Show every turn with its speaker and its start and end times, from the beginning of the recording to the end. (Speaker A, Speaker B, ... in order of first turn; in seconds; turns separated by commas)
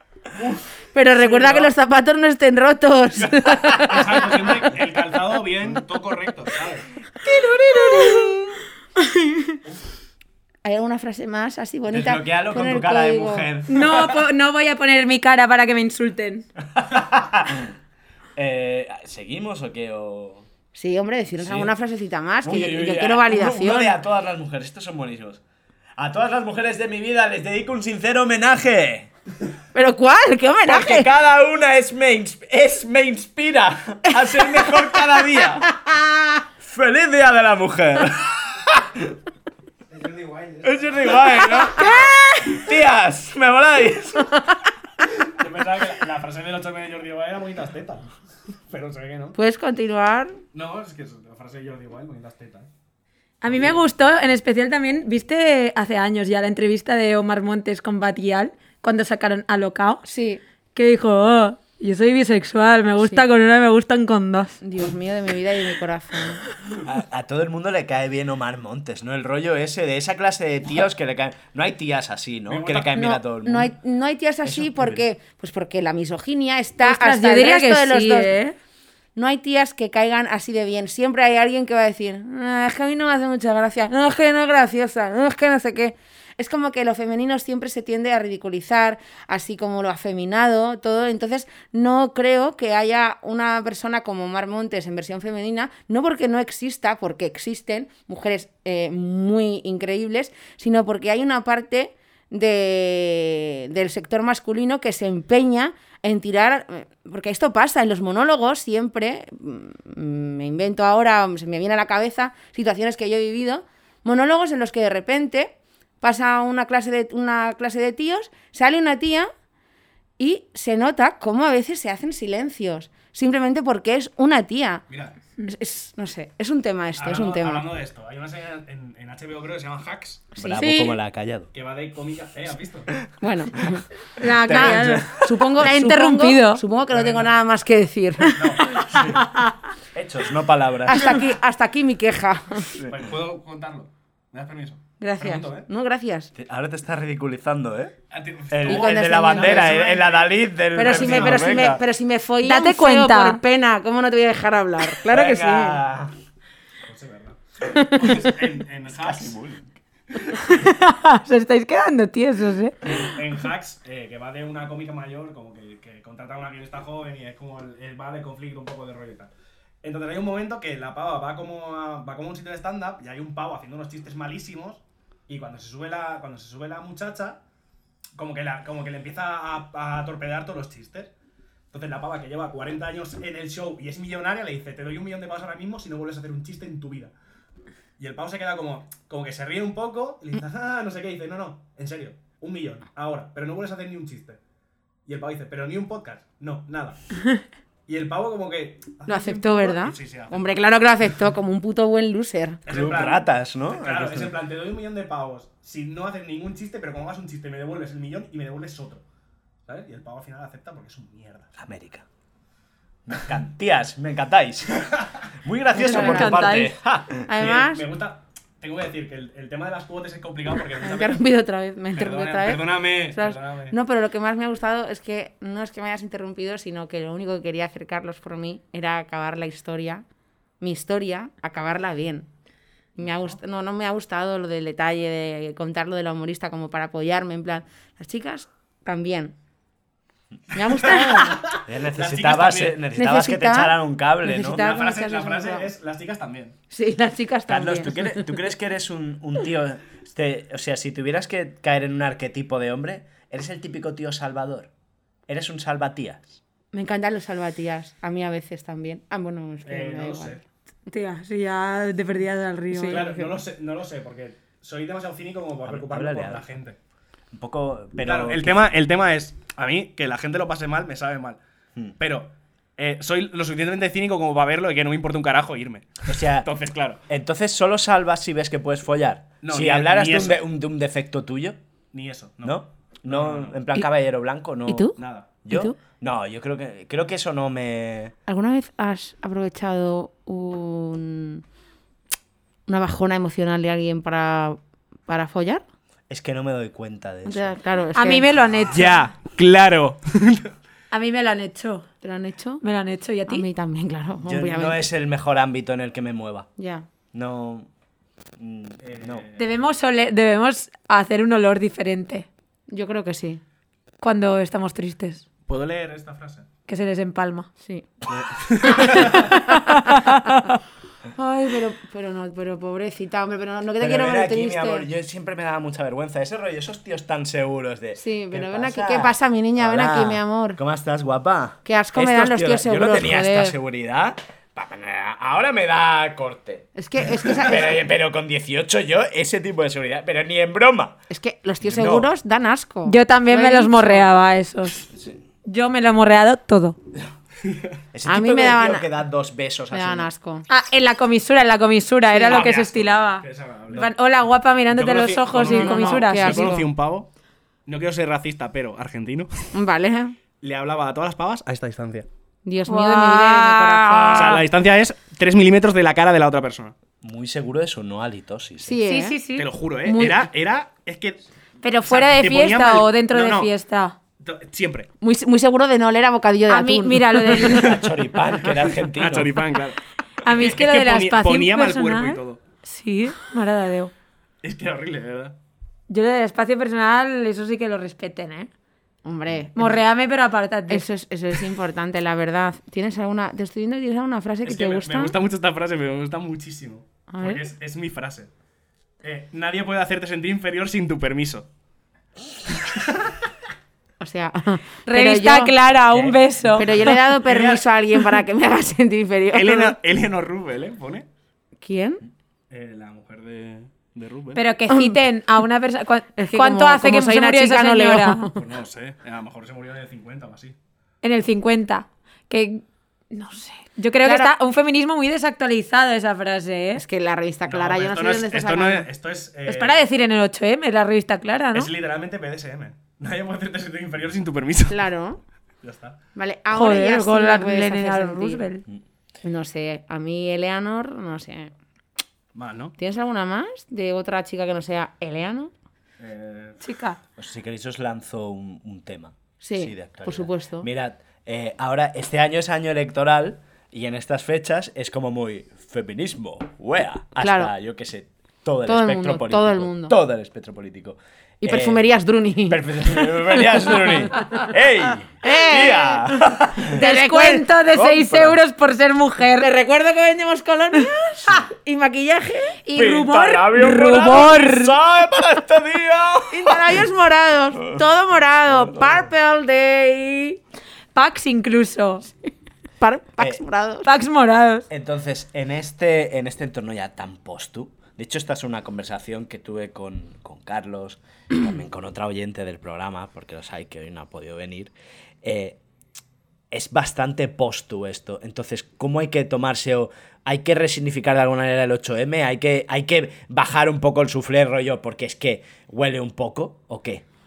Speaker A: 0.3-1.7, Speaker B: 0.9-4.7, Speaker A: 3.2-6.8, Speaker C: 7.3-9.6, Speaker B: 10.6-13.5, Speaker D: 11.9-14.2, Speaker C: 13.7-16.4, Speaker D: 16.7-17.7, Speaker D: 18.4-20.4, Speaker B: 20.7-23.9, Speaker D: 21.4-21.7, Speaker D: 22.4-25.4, Speaker D: 26.0-29.1, Speaker B: 29.7-31.1, Speaker D: 30.6-35.7, Speaker B: 35.7-36.4, Speaker D: 36.6-39.1, Speaker A: 39.9-41.5, Speaker D: 40.6-44.4, Speaker B: 41.8-42.5, Speaker A: 45.3-48.0, Speaker A: 48.7-49.4, Speaker B: 49.4-50.4, Speaker A: 50.5-52.7, Speaker C: 53.4-60.0, Speaker B: 60.0-60.4, Speaker C: 60.7-64.6, Speaker B: 64.6-66.4, Speaker D: 66.8-73.7, Speaker A: 72.5-73.0, Speaker B: 73.0-78.4, Speaker D: 74.5-75.0, Speaker C: 76.8-78.5, Speaker B: 79.2-119.3, Speaker B: 120.2-124.8, Speaker A: 124.9-125.1, Speaker B: 125.4-127.7, Speaker A: 127.0-130.3, Speaker D: 130.3-131.5, Speaker C: 130.5-130.9, Speaker A: 131.5-132.9, Speaker B: 133.2-133.8, Speaker C: 134.2-136.6, Speaker D: 134.4-135.2, Speaker B: 134.5-138.4, Speaker A: 136.9-137.3, Speaker A: 138.3-139.2, Speaker C: 138.9-139.5, Speaker D: 139.9-141.2, Speaker B: 140.8-142.6, Speaker A: 142.9-145.7, Speaker B: 145.0-146.3, Speaker D: 146.3-147.9, Speaker A: 148.1-150.3, Speaker D: 148.5-151.8, Speaker B: 148.7-150.0, Speaker B: 150.7-155.8, Speaker A: 150.8-151.7, Speaker C: 152.4-153.4, Speaker D: 155.1-156.1, Speaker A: 156.9-159.4, Speaker D: 159.0-159.7, Speaker C: 160.4-163.0, Speaker A: 162.9-169.3, Speaker A: 169.8-177.4, Speaker A: 178.2-181.1, Speaker A: 181.7-187.1, Speaker A: 188.0-194.4, Speaker A: 195.1-197.0, Speaker A: 197.9-200.6, Speaker B: 199.1-202.6, Speaker A: 202.7-209.0, Speaker D: 202.7-204.3, Speaker A: 209.7-211.5, Speaker D: 211.6-212.0, Speaker D: 213.1-214.9, Speaker D: 215.4-217.3, Speaker B: 215.7-216.5, Speaker C: 215.8-216.7, Speaker B: 217.3-217.8, Speaker A: 217.3-221.2, Speaker B: 220.8-230.0, Speaker A: 221.9-223.7, Speaker B: 230.6-232.3, Speaker B: 232.9-239.3, Speaker B: 240.5-241.5, Speaker A: 240.8-242.8, Speaker D: 241.7-244.8, Speaker B: 242.9-245.7, Speaker A: 244.6-246.6, Speaker B: 246.7-248.4, Speaker D: 247.5-254.7, Speaker D: 255.3-256.4, Speaker B: 256.7-260.4, Speaker A: 259.6-260.4, Speaker C: 260.9-263.3, Speaker B: 262.7-263.1, Speaker A: 262.9-266.8, Speaker D: 265.6-266.4, Speaker D: 267.3-268.6, Speaker A: 268.0-271.4, Speaker A: 272.0-277.0, Speaker D: 276.1-276.5, Speaker D: 277.1-281.6, Speaker A: 279.4-280.4, Speaker A: 281.9-283.6, Speaker D: 282.4-288.1, Speaker B: 284.7-284.9, Speaker A: 285.0-285.3, Speaker B: 285.5-285.8, Speaker B: 288.3-291.4, Speaker B: 292.7-295.6, Speaker D: 296.1-297.5, Speaker B: 297.2-298.3, Speaker C: 297.9-299.0, Speaker A: 298.7-300.5, Speaker C: 300.9-301.9, Speaker B: 302.0-302.6, Speaker C: 302.6-303.4, Speaker B: 303.3-304.8, Speaker D: 304.2-306.5, Speaker B: 306.6-306.9, Speaker D: 307.1-307.7, Speaker D: 308.4-309.2, Speaker A: 308.8-309.4, Speaker C: 309.4-312.3, Speaker B: 312.7-313.4, Speaker C: 314.0-315.2, Speaker A: 315.4-316.4, Speaker C: 316.7-317.5, Speaker A: 318.4-319.3, Speaker C: 318.8-320.6, Speaker B: 319.7-320.1, Speaker B: 321.1-324.9, Speaker D: 323.8-341.0, Speaker B: 328.0-330.6, Speaker B: 331.6-333.5, Speaker B: 336.7-337.8, Speaker B: 341.1-344.1, Speaker D: 341.6-342.1, Speaker C: 342.9-344.8, Speaker D: 344.8-345.2, Speaker C: 345.4-346.8, Speaker D: 347.9-350.1, Speaker B: 348.0-348.9, Speaker B: 349.7-350.5, Speaker C: 350.5-356.6, Speaker B: 352.1-352.5, Speaker A: 352.3-353.9, Speaker A: 354.7-357.1, Speaker B: 355.5-356.7, Speaker A: 357.7-359.4, Speaker B: 359.5-360.1, Speaker A: 360.4-362.1, Speaker B: 362.4-364.4, Speaker C: 362.7-364.4, Speaker A: 364.1-366.7, Speaker D: 367.0-368.8, Speaker B: 368.6-369.2, Speaker C: 368.8-370.3, Speaker A: 369.3-371.2, Speaker C: 371.6-373.9, Speaker A: 371.9-373.5, Speaker A: 374.2-374.9, Speaker B: 375.0-377.6, Speaker C: 376.5-377.8, Speaker D: 377.4-379.3, Speaker A: 378.9-382.4, Speaker C: 380.2-383.9, Speaker A: 384.4-385.4, Speaker C: 385.9-388.5, Speaker B: 389.0-389.8, Speaker C: 389.6-390.9, Speaker B: 390.7-395.1, Speaker A: 394.4-398.3, Speaker B: 397.1-397.4, Speaker A: 399.0-401.5, Speaker A: 402.6-403.0, Speaker B: 404.0-405.5, Speaker C: 404.9-406.7, Speaker A: 405.9-407.6, Speaker B: 406.5-409.8, Speaker A: 409.3-411.1, Speaker B: 411.6-412.0, Speaker A: 412.5-414.4, Speaker C: 414.3-418.2, Speaker B: 414.7-415.0, Speaker B: 416.1-418.4, Speaker A: 418.3-420.6, Speaker C: 421.0-426.8, Speaker B: 424.0-424.3, Speaker B: 426.7-428.9, Speaker A: 427.5-429.9, Speaker C: 429.5-431.7, Speaker A: 431.5-434.8, Speaker B: 434.7-435.2, Speaker A: 435.6-436.0, Speaker B: 436.1-438.4, Speaker C: 436.5-438.6, Speaker B: 439.2-441.5, Speaker A: 442.3-442.7, Speaker B: 442.8-445.5, Speaker A: 446.0-446.6, Speaker C: 446.6-447.0, Speaker D: 447.2-461.8, Speaker B: 449.4-450.7, Speaker B: 457.2-457.5, Speaker B: 458.6-460.0, Speaker B: 461.4-463.9, Speaker D: 462.5-466.8, Speaker B: 465.2-467.5, Speaker C: 466.7-469.5, Speaker D: 467.7-468.4, Speaker B: 469.4-472.6, Speaker C: 472.6-474.8, Speaker D: 472.7-476.8, Speaker B: 476.3-480.4, Speaker D: 478.5-479.0, Speaker C: 480.9-482.1, Speaker B: 482.8-483.9, Speaker C: 483.8-484.6, Speaker D: 484.7-495.6, Speaker D: 496.5-507.0